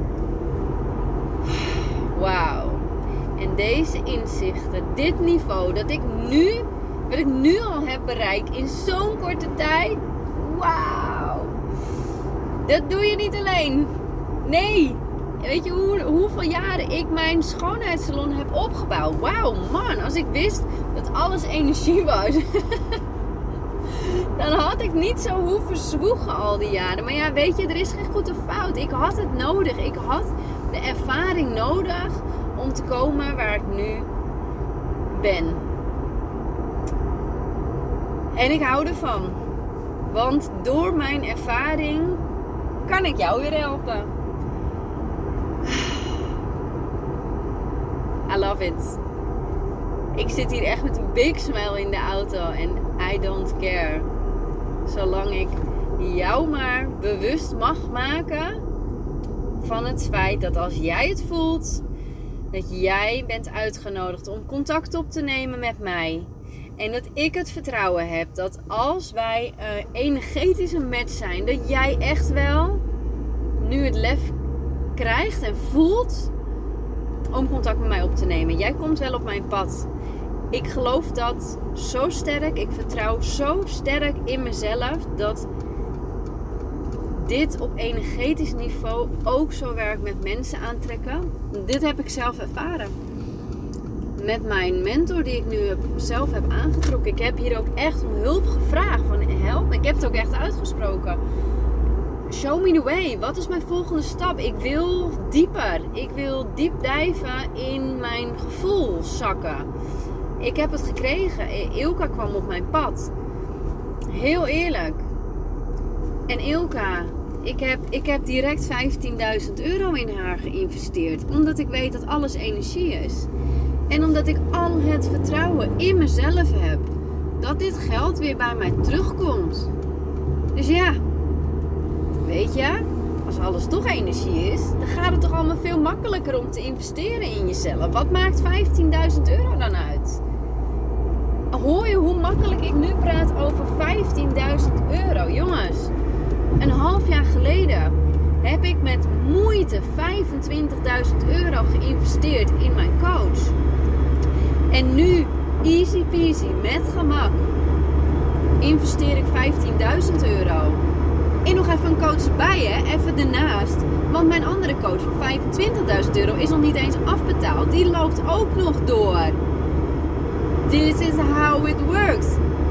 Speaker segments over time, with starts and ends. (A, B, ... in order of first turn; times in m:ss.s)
0:01.5-0:11.5 A
0:12.6-0:13.9 A
0:14.4-0:23.0 A
0:23.9-0:34.1 A
0:35.1-0:35.6 A
0:38.3-0:39.4 A
0:40.1-0:42.2 A
0:42.8-0:44.1 A
0:45.6-0:46.0 A
0:48.3-0:49.0 A
0:50.1-0:54.1 A
0:54.9-0:58.6 A
0:59.6-1:01.8 A
1:02.5-1:12.8 A
1:13.6-1:14.4 A
1:15.0-1:16.3 A
1:17.3-1:19.9 A
1:20.5-1:25.5 A
1:27.1-1:32.9 A
1:34.2-1:41.2 A
1:42.3-1:49.7 A
1:50.4-1:53.1 A
1:54.1-1:55.0 A
1:56.3-2:03.3 A
2:03.9-2:06.9 A
2:07.4-2:09.7 A
2:10.5-2:11.0 A
2:12.2-2:20.2 A
2:21.5-2:25.9 A
2:26.6-2:33.6 A
2:34.7-2:37.5 A
2:38.6-2:40.8 A
2:41.4-2:49.4 A
2:50.6-2:52.4 A